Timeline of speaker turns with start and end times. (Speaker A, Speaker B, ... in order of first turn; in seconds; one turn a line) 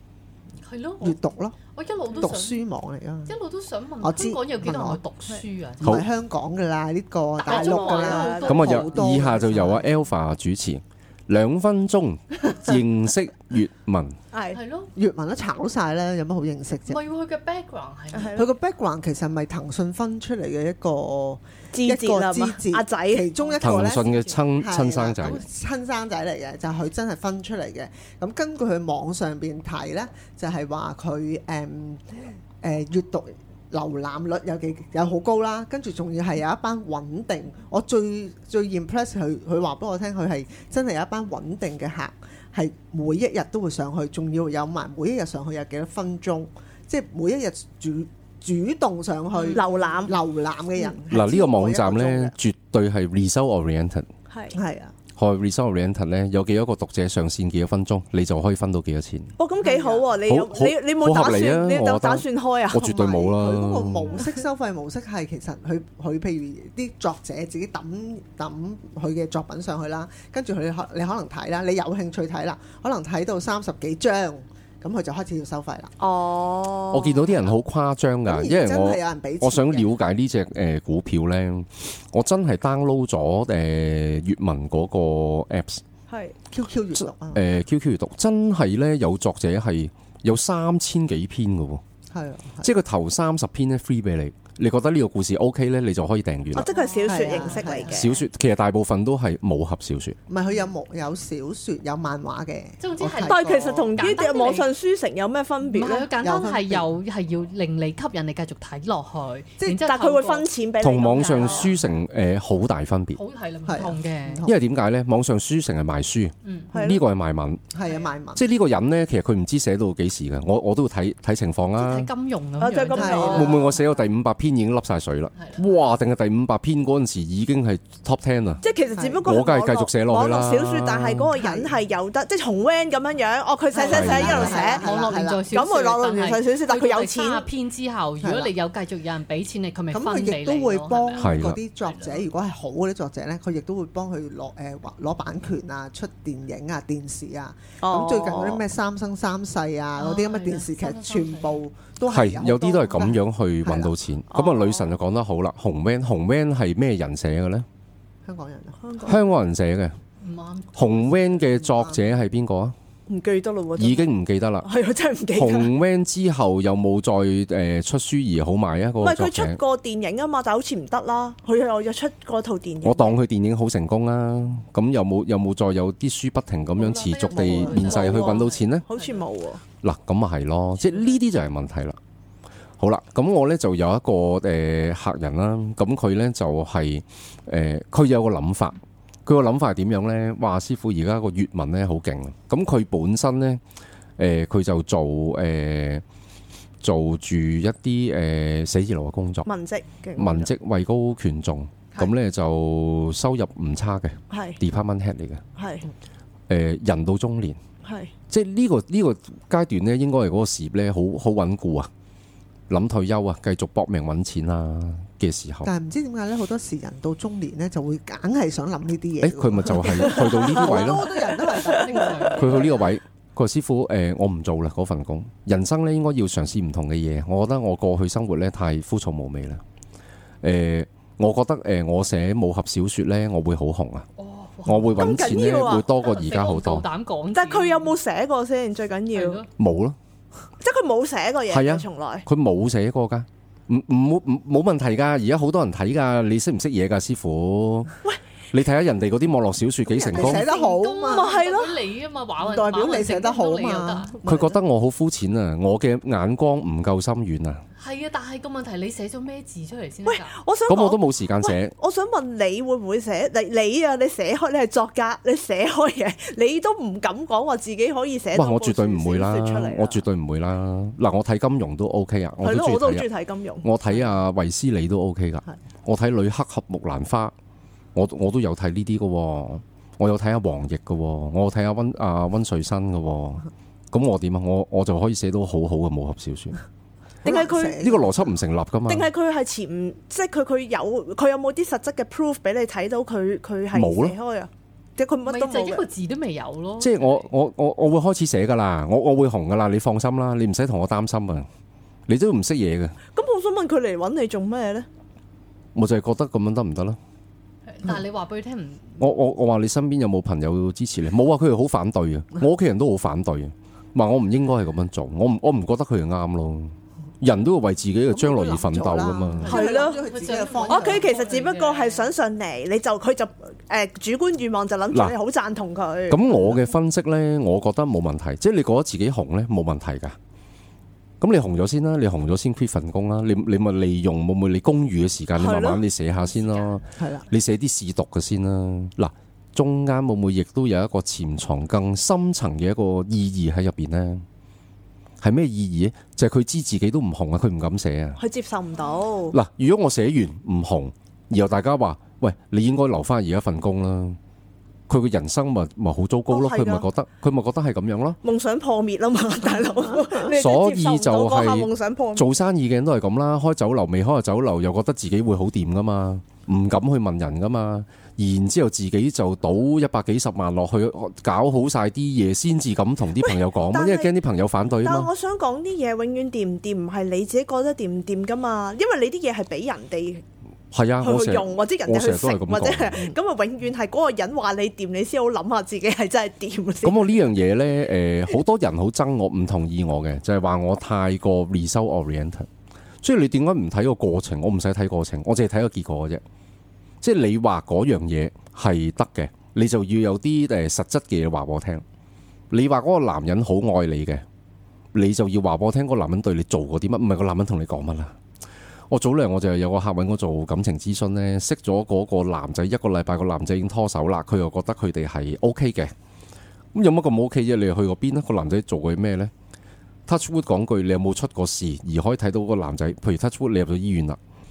Speaker A: 0.6-2.6
Speaker B: 1.0-1.6
Speaker B: 2.1-3.4
Speaker A: 3.3-6.0
Speaker B: 4.0-5.0
Speaker B: 5.8-9.9
Speaker A: 7.4-9.3
Speaker C: 7.5-8.8
Speaker D: 8.5-14.2
Speaker C: 14.3-14.6
Speaker A: 14.5-14.9
Speaker B: 14.9-17.0
Speaker A: 16.9-18.5
Speaker C: 18.1-18.5
Speaker B: 18.4-32.1
Speaker C: 21.7-23.3
Speaker A: 23.4-24.3
Speaker D: 23.6-25.4
Speaker B: 32.6-52.4
Speaker C: 49.4-50.1
Speaker D: 51.1-54.1
Speaker C: 54.3-54.6
Speaker B: 54.5-54.9
Speaker D: 55.2-59.4
Speaker C: 59.4-63.2
Speaker B: 59.6-60.1
Speaker D: 60.3-64.2
Speaker B: 62.8-75.9
Speaker C: 76.0-77.4
Speaker D: 76.9-85.8
Speaker B: 78.3-79.9
Speaker C: 86.1-86.4
Speaker B: 86.5-87.4
Speaker D: 87.0-91.8
Speaker B: 92.1-92.7
Speaker D: 92.6-96.7
Speaker C: 96.5-98.2
Speaker A: 96.7-97.9
Speaker B: 97.0-98.1
Speaker D: 97.9-100.2
Speaker B: 100.3-104.0
Speaker A: 102.8-104.7
Speaker C: 103.2-106.1
Speaker A: 105.6-110.5
Speaker B: 106.2-106.9
Speaker C: 109.8-111.8
Speaker D: 110.8-113.2
Speaker A: 111.1-111.9
Speaker A: 113.2-114.5
Speaker B: 113.7-114.6
Speaker D: 114.4-117.6
Speaker A: 116.4-116.7
Speaker C: 116.7-117.0
Speaker B: 117.7-118.4
Speaker A: 117.8-118.1
Speaker D: 118.3-122.1
Speaker A: 121.8-123.7
Speaker C: 122.6-123.7
Speaker B: 122.9-123.7
Speaker D: 123.3-128.6
Speaker A: 125.4-125.7
Speaker C: 128.6-137.5
Speaker B: 128.9-129.3
Speaker D: 129.2-131.3
Speaker B: 131.3-131.7
Speaker B: 133.7-135.5
Speaker D: 133.9-134.6
Speaker A: 133.9-142.2
Speaker B: 138.2-138.5
Speaker B: 139.9-153.9
Speaker D: 141.2-141.6
Speaker C: 147.8-148.6
Speaker A: 150.0-151.6
Speaker D: 152.1-157.7
Speaker C: 154.3-154.9
Speaker B: 158.2-158.8
Speaker C: 158.8-159.2
Speaker D: 159.0-160.0
Speaker A: 160.2-161.3
Speaker D: 160.7-162.8
Speaker B: 161.3-162.1
Speaker C: 163.1-164.1
Speaker D: 163.8-164.7
Speaker C: 164.6-165.7
Speaker D: 165.3-169.6
Speaker C: 169.0-173.2
Speaker D: 172.8-178.9
Speaker A: 176.8-179.3
Speaker B: 177.3-178.0
Speaker C: 177.7-179.6
Speaker D: 179.8-182.0
Speaker A: 180.9-181.2
Speaker D: 182.8-193.6
Speaker D: 194.2-196.0
Speaker D: 196.8-199.5
Speaker C: 199.4-200.5
Speaker D: 200.2-205.4
Speaker C: 204.3-204.6
Speaker C: 205.6-205.9
Speaker D: 206.5-207.6
Speaker C: 207.8-208.1
Speaker D: 208.3-211.9
Speaker D: 212.7-215.7
Speaker B: 215.6-222.8
Speaker D: 219.2-221.1
Speaker C: 220.1-220.8
Speaker A: 221.4-222.9
Speaker C: 221.6-222.2
Speaker D: 222.3-229.6
Speaker D: 230.4-234.1
Speaker A: 234.2-237.9
Speaker D: 234.7-236.9
Speaker C: 235.0-235.9
Speaker C: 237.3-239.4
Speaker A: 239.1-239.5
Speaker D: 239.6-240.0
Speaker C: 240.6-242.2
Speaker D: 241.5-247.9
Speaker D: 248.5-250.5
Speaker B: 249.9-251.4
Speaker A: 250.2-254.1
Speaker C: 251.1-251.8
Speaker B: 252.4-254.6
Speaker D: 254.2-257.6
Speaker A: 257.8-260.4
Speaker C: 260.1-270.0
Speaker D: 260.7-261.7
Speaker D: 268.3-273.1
Speaker C: 272.4-273.7
Speaker D: 273.6-277.3
Speaker D: 277.9-286.6
Speaker C: 287.2-287.9
Speaker B: 287.2-288.3
Speaker D: 287.8-289.1
Speaker C: 288.9-295.8
Speaker D: 293.7-294.2
Speaker A: 295.2-297.3
Speaker D: 296.8-301.5
Speaker D: 302.1-303.0
Speaker C: 303.1-304.9
Speaker D: 305.8-307.0
Speaker A: 307.7-309.0
Speaker D: 309.0-319.5
Speaker B: 318.1-321.1
Speaker A: 319.4-322.1
Speaker C: 319.5-320.0
Speaker C: 320.6-326.6
Speaker D: 324.9-325.2
Speaker D: 326.1-330.2
Speaker D: 331.2-344.2
Speaker C: 335.4-335.8
Speaker A: 336.2-336.8
Speaker B: 337.0-337.3
Speaker D: 345.2-348.2
Speaker C: 348.2-349.4
Speaker D: 349.3-354.2
Speaker D: 354.9-358.2
Speaker C: 356.3-356.9
Speaker C: 358.2-362.3
Speaker D: 360.3-375.1
Speaker C: 373.2-374.1
Speaker C: 374.8-380.2
Speaker D: 380.7-383.1
Speaker C: 381.0-387.2
Speaker D: 386.8-392.5
Speaker D: 393.0-396.2
Speaker D: 397.0-401.8
Speaker D: 402.5-404.2
Speaker D: 404.9-408.1
Speaker D: 408.9-415.9
Speaker D: 416.7-419.3
Speaker D: 420.1-424.2